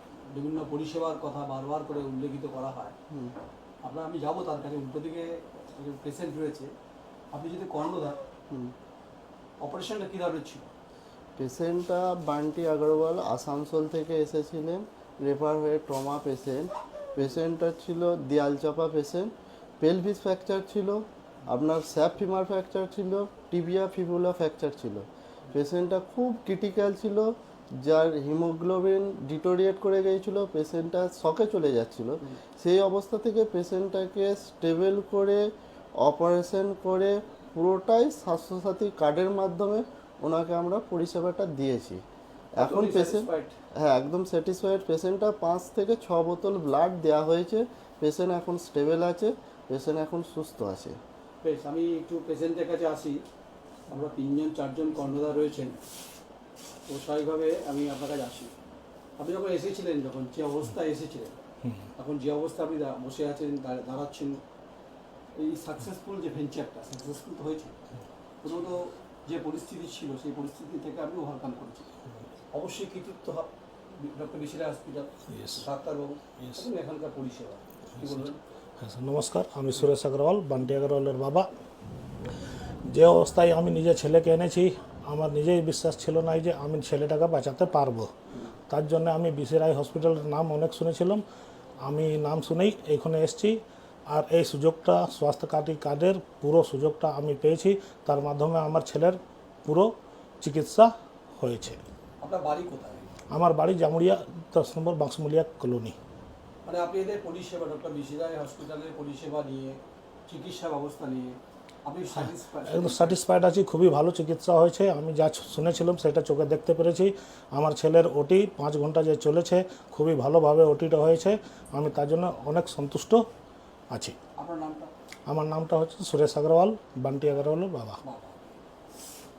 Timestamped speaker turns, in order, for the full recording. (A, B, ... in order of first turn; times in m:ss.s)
0:00.3-0:02.9 A
0:03.1-0:03.3 B
0:03.8-0:06.7 A
0:07.3-0:08.2 A
0:09.6-0:10.7 A
0:11.4-0:35.4 B
0:36.0-0:42.0 B
0:42.6-0:51.0 B
0:42.6-0:43.5 A
0:51.4-0:53.2 A
0:53.9-0:55.8 A
0:56.9-0:58.5 A
0:59.2-1:01.4 A
1:02.0-1:04.4 A
1:05.4-1:07.7 A
1:08.4-1:11.9 A
1:12.5-1:18.4 A
1:15.3-1:15.6 C
1:18.8-1:21.5 C
1:22.9-1:28.1 C
1:28.7-1:31.2 C
1:31.8-1:33.6 C
1:34.1-1:41.8 C
1:42.2-1:43.1 A
1:43.3-1:46.0 C
1:46.6-1:53.2 A
1:52.7-2:03.2 C
2:04.4-2:04.9 A
2:05.3-2:08.0 C
2:08.0-2:08.6 A